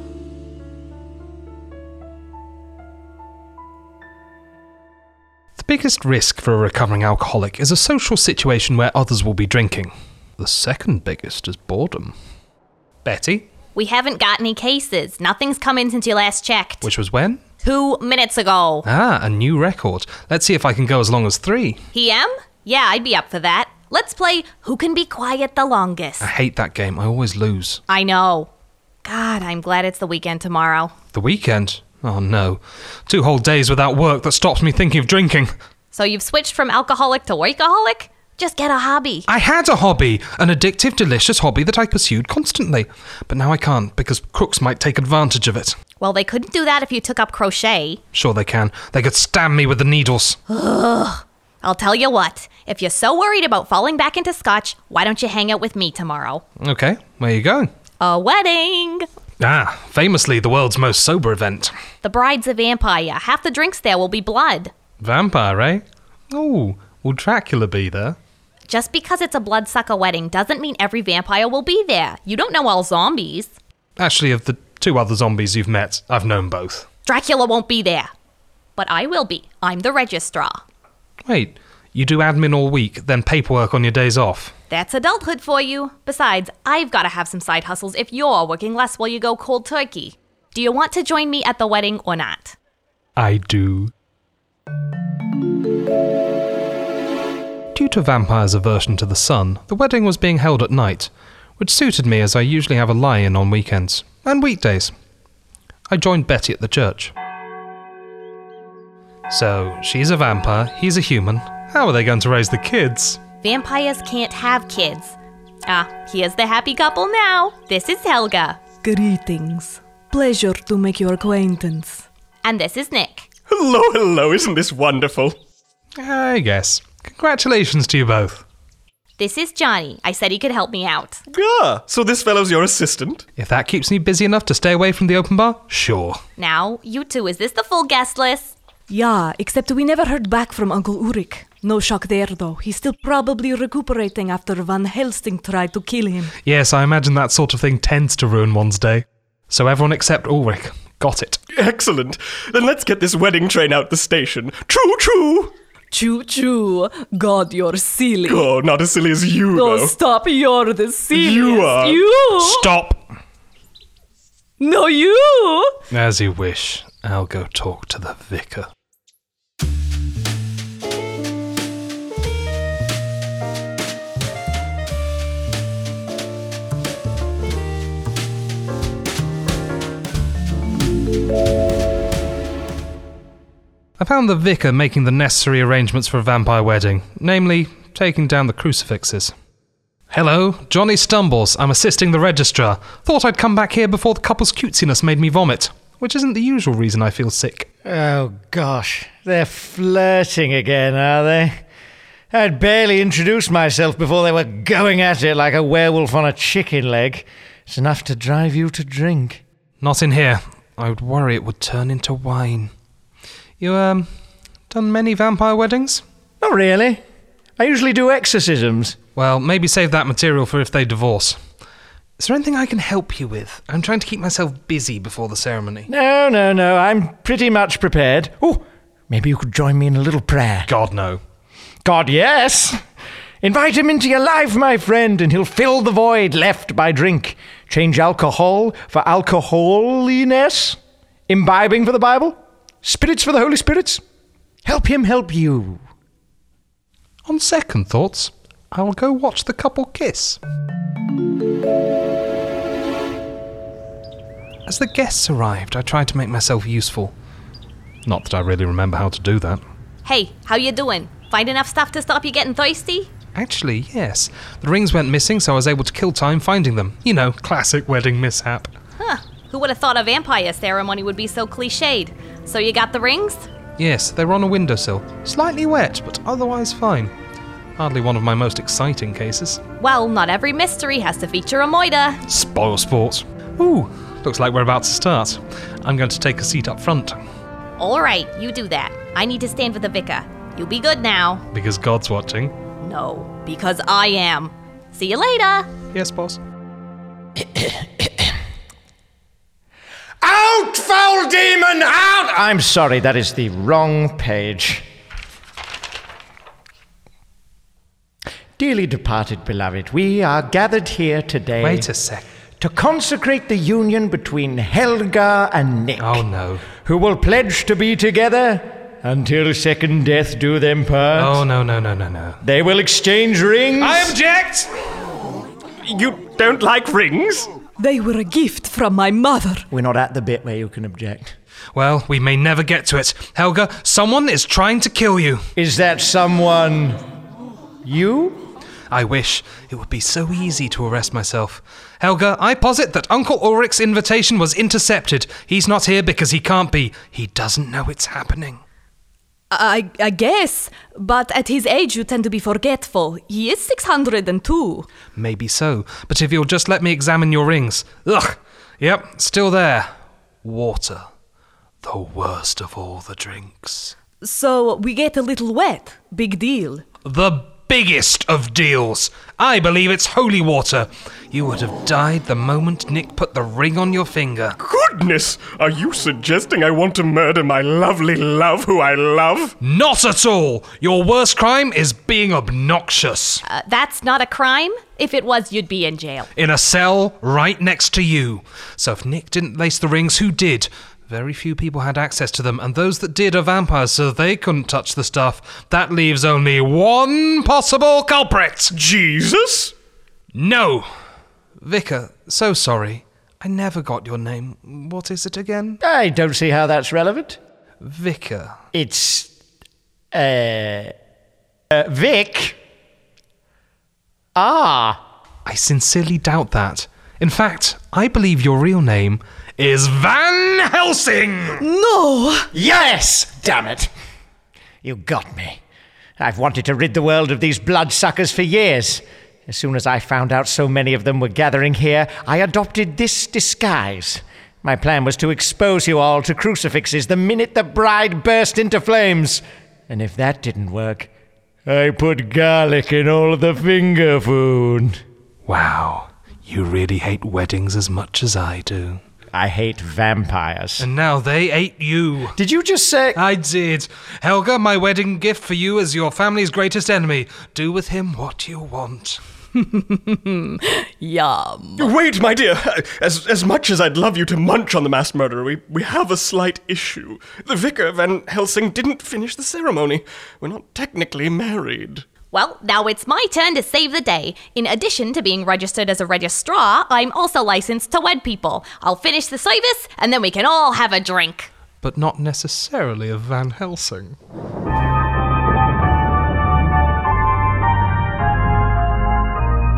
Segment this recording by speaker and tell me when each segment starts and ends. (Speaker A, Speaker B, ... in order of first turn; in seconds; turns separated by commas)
Speaker A: 5.6-12.1, Speaker A: 13.0-13.5, Speaker B: 13.7-16.9, Speaker A: 16.8-17.4, Speaker B: 17.6-18.9, Speaker A: 18.8-21.8, Speaker B: 21.9-26.3, Speaker A: 26.2-27.8, Speaker B: 27.9-28.5, Speaker B: 29.0-30.9, Speaker A: 31.1-35.5, Speaker B: 35.9-39.3, Speaker A: 39.3-45.8, Speaker B: 46.0-48.0, Speaker A: 48.1-50.4, Speaker B: 50.5-56.4, Speaker A: 56.6-57.7, Speaker B: 58.0-59.1, Speaker A: 59.4-61.7, Speaker B: 62.0-64.7, Speaker A: 65.0-68.2, Speaker B: 68.7-73.5, Speaker A: 74.0-76.9, Speaker B: 77.0-78.1, Speaker B: 78.8-80.6, Speaker A: 81.2-84.5, Speaker B: 84.7-92.5, Speaker A: 93.2-93.9, Speaker A: 97.7-104.9, Speaker A: 105.9-107.1, Speaker A: 109.3-113.2, Speaker B: 113.4-118.8, Speaker C: 118.8-122.0, Speaker B: 122.4-123.3, Speaker D: 123.5-125.4, Speaker A: 126.0-128.4, Speaker B: 129.2-131.2, Speaker D: 131.3-133.2, Speaker A: 133.3-136.2, Speaker B: 136.4-138.5, Speaker C: 138.9-146.3, Speaker A: 146.4-151.4, Speaker D: 151.5-155.5, Speaker C: 155.9-158.1, Speaker B: 155.9-156.5, Speaker B: 157.4-158.4, Speaker D: 158.2-160.0, Speaker C: 159.6-162.6, Speaker B: 159.6-162.3, Speaker D: 161.1-162.1, Speaker A: 162.3-163.0, Speaker C: 164.6-165.7, Speaker B: 164.6-165.0, Speaker A: 165.9-168.7, Speaker A: 184.0-189.3, Speaker A: 190.1-197.7, Speaker E: 197.8-201.6, Speaker E: 202.3-209.4, Speaker A: 209.8-212.7, Speaker A: 213.6-214.1, Speaker A: 214.7-216.0, Speaker E: 216.4-217.0, Speaker E: 217.6-218.9, Speaker A: 219.2-221.4, Speaker A: 222.2-225.9, Speaker E: 225.9-230.7, Speaker A: 230.7-231.2, Speaker E: 231.8-232.8, Speaker E: 233.4-240.8, Speaker E: 241.3-244.0, Speaker E: 244.6-245.8, Speaker A: 247.2-250.4, Speaker A: 254.7-257.1, Speaker A: 258.1-259.6, Speaker B: 260.0-263.1, Speaker A: 263.3-268.7, Speaker B: 269.0-273.5, Speaker A: 273.8-277.1, Speaker A: 277.8-279.6, Speaker B: 279.8-282.2, Speaker A: 282.3-287.2, Speaker B: 287.8-291.4, Speaker A: 291.5-292.5, Speaker B: 292.8-295.7, Speaker A: 295.9-296.4, Speaker E: 297.4-298.3, Speaker E: 300.2-304.8, Speaker E: 308.6-311.9, Speaker A: 311.6-312.3, Speaker E: 312.6-321.4, Speaker A: 316.0-316.7, Speaker A: 321.1-322.4, Speaker E: 322.4-324.1, Speaker A: 323.8-324.7, Speaker D: 325.8-327.5, Speaker C: 327.8-329.6, Speaker E: 329.7-331.3, Speaker A: 331.7-335.4, Speaker E: 335.6-337.0, Speaker E: 337.8-338.4, Speaker A: 338.9-348.6, Speaker C: 349.5-354.9, Speaker A: 355.1-359.9, Speaker A: 360.4-361.1, Speaker A: 361.8-363.9, Speaker C: 364.2-366.8, Speaker A: 367.0-374.6, Speaker D: 374.6-379.5, Speaker A: 379.6-383.4, Speaker B: 383.4-386.3, Speaker A: 386.3-398.7, Speaker D: 398.7-399.7, Speaker A: 400.3-400.9, Speaker A: 401.6-405.8, Speaker E: 405.8-407.4, Speaker A: 407.8-408.5, Speaker E: 408.7-409.3, Speaker E: 410.1-410.9, Speaker E: 411.7-412.6, Speaker E: 414.4-415.0, Speaker A: 415.4-421.6, Speaker C: 421.8-422.4, Speaker E: 422.5-423.9, Speaker E: 424.8-425.6, Speaker E: 426.2-441.1, Speaker E: 441.6-445.0, Speaker A: 445.4-449.0, Speaker E: 449.3-450.9, Speaker A: 450.8-452.4, Speaker E: 452.4-453.2, Speaker A: 453.1-459.2, Speaker B: 459.6-461.9, Speaker D: 461.8-472.1, Speaker B: 472.3-481.5, Speaker A: 481.8-484.2